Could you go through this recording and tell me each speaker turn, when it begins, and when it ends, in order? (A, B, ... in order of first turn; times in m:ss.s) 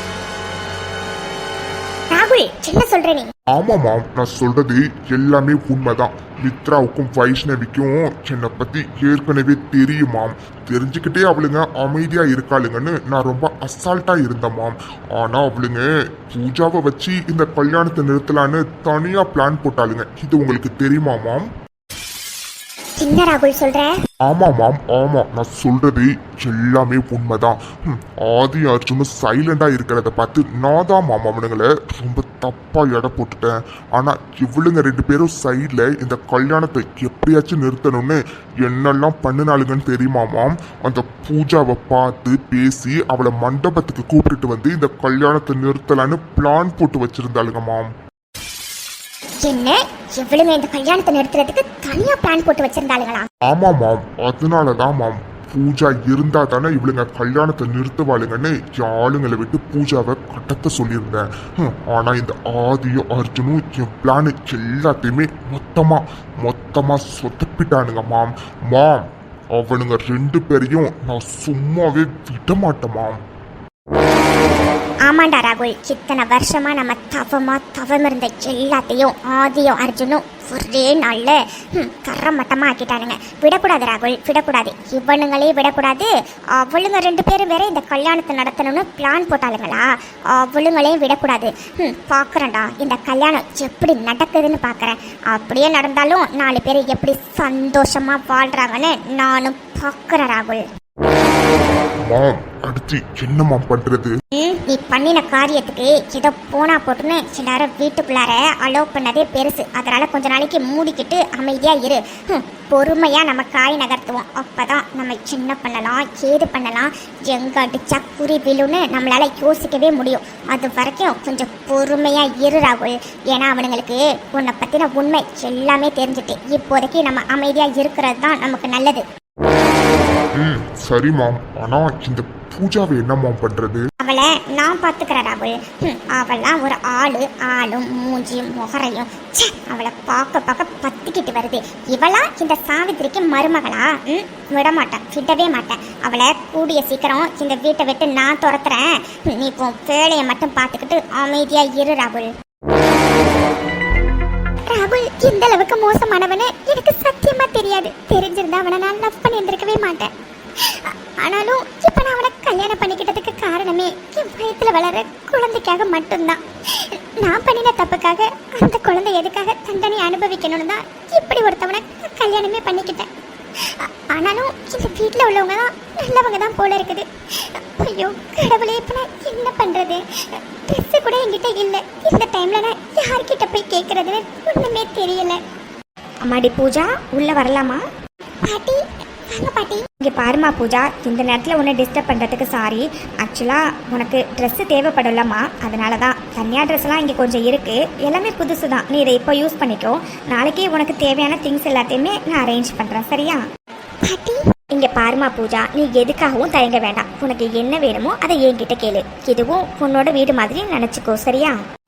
0:02.1-0:03.3 A
0:03.5-0:21.5 B
0:23.0-0:23.9 A
0:24.2-0:47.9 B
0:49.4-0:53.3 A
0:53.5-1:09.0 B
1:09.5-1:13.2 B
1:15.1-1:40.6 A
1:42.1-1:44.2 B
1:44.3-2:09.0 A
2:10.4-2:13.9 B
2:14.0-2:32.3 A
2:34.7-2:40.1 A
2:40.6-2:53.1 A
2:53.6-3:00.0 A
3:00.7-3:05.4 A
3:06.2-3:07.8 C
3:08.5-3:09.8 A
3:10.0-3:23.4 C
3:24.1-3:24.4 A
3:24.7-3:31.6 C